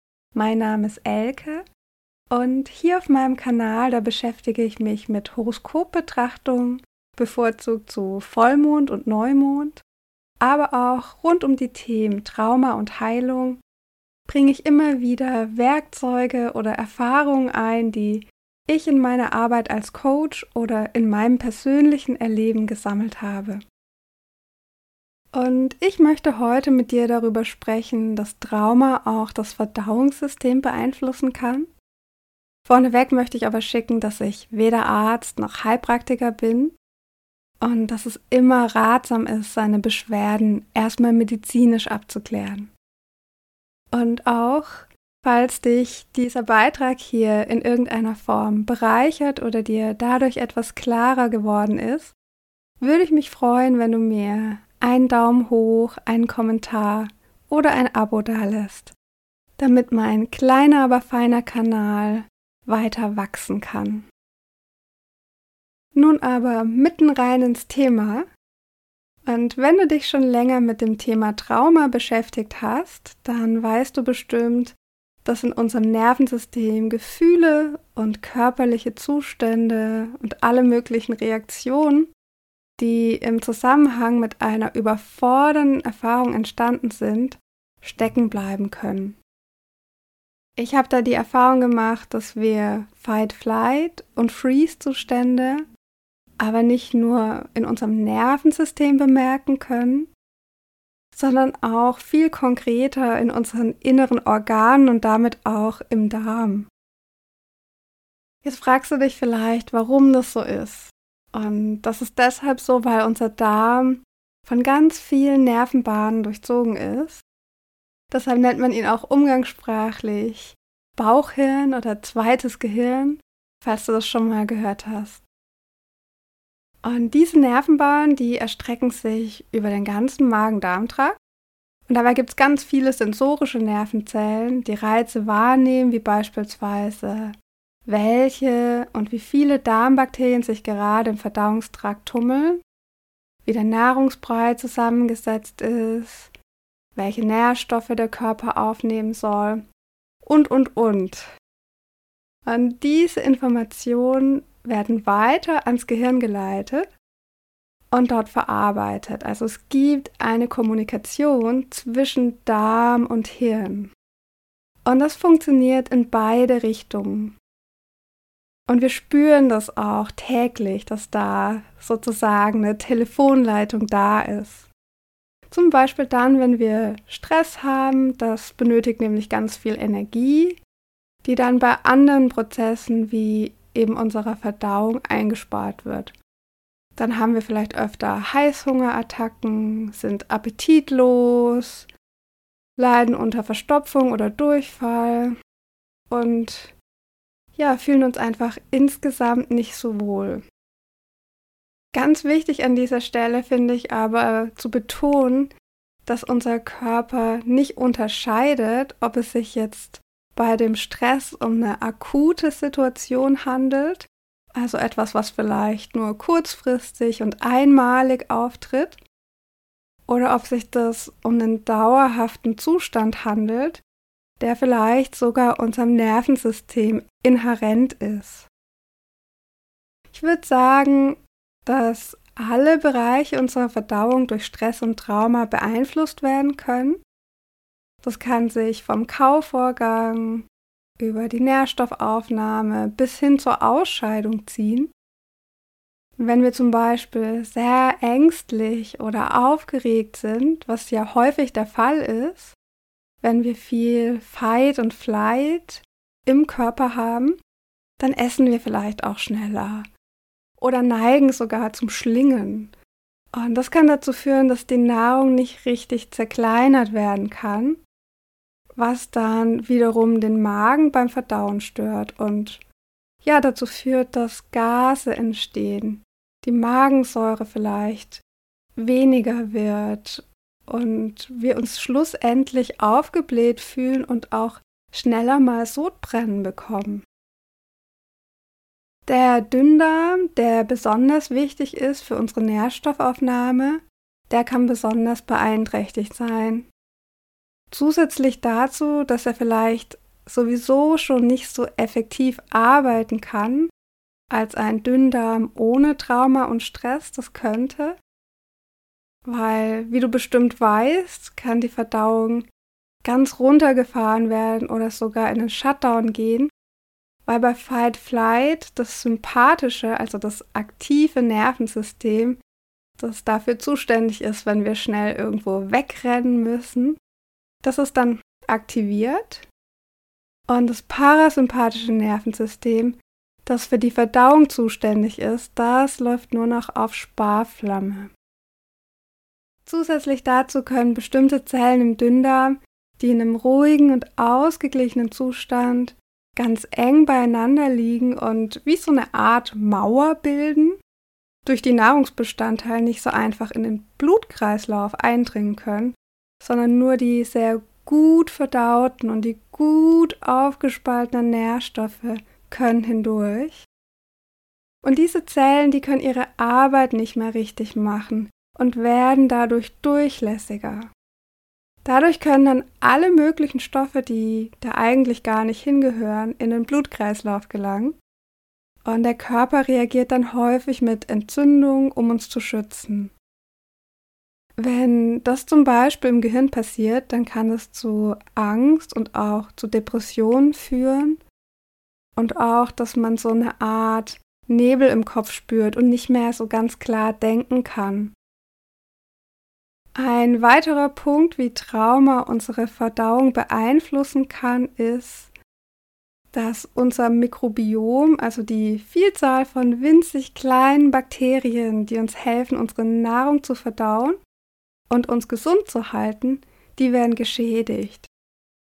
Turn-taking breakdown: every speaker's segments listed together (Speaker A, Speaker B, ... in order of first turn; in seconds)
Speaker A: 0.3-1.6, 2.3-9.8, 10.4-13.6, 14.3-23.6, 25.3-31.7, 32.6-36.7, 37.6-42.7, 43.9-52.1, 52.8-58.9, 59.6-64.0, 65.9-68.2, 69.2-82.1, 82.8-89.2, 90.6-95.6, 96.4-100.1, 101.1-106.7, 108.4-117.2, 118.1-125.2, 126.8-131.2, 131.9-142.6, 143.4-146.3, 146.9-149.6, 150.2-151.3, 152.4-156.9, 157.9-163.9, 164.8-167.3, 168.7-174.7, 175.5-180.6, 181.2-186.1, 186.9-191.9, 192.8-195.3, 196.1-196.7, 197.6-200.4, 201.9-205.5, 206.1-219.0, 220.1-223.8, 224.4-228.5, 230.1-237.0, 238.0-240.4, 241.0-244.9, 246.2-252.5, 253.2-257.4, 258.0-259.9, 260.6-262.7, 263.3-267.8, 268.7-272.6, 273.2-278.2, 278.8-287.0, 289.1-296.7, 297.7-303.7, 304.3-308.0, 309.2-312.5, 313.0-316.5, 317.2-322.4, 323.0-327.0, 327.6-329.5, 330.5-338.1, 339.6-350.8, 351.4-363.6, 364.8-370.9, 371.8-378.0, 378.8-383.1, 384.6-391.2, 392.1-398.1, 399.9-405.3, 406.3-414.2, 414.9-418.1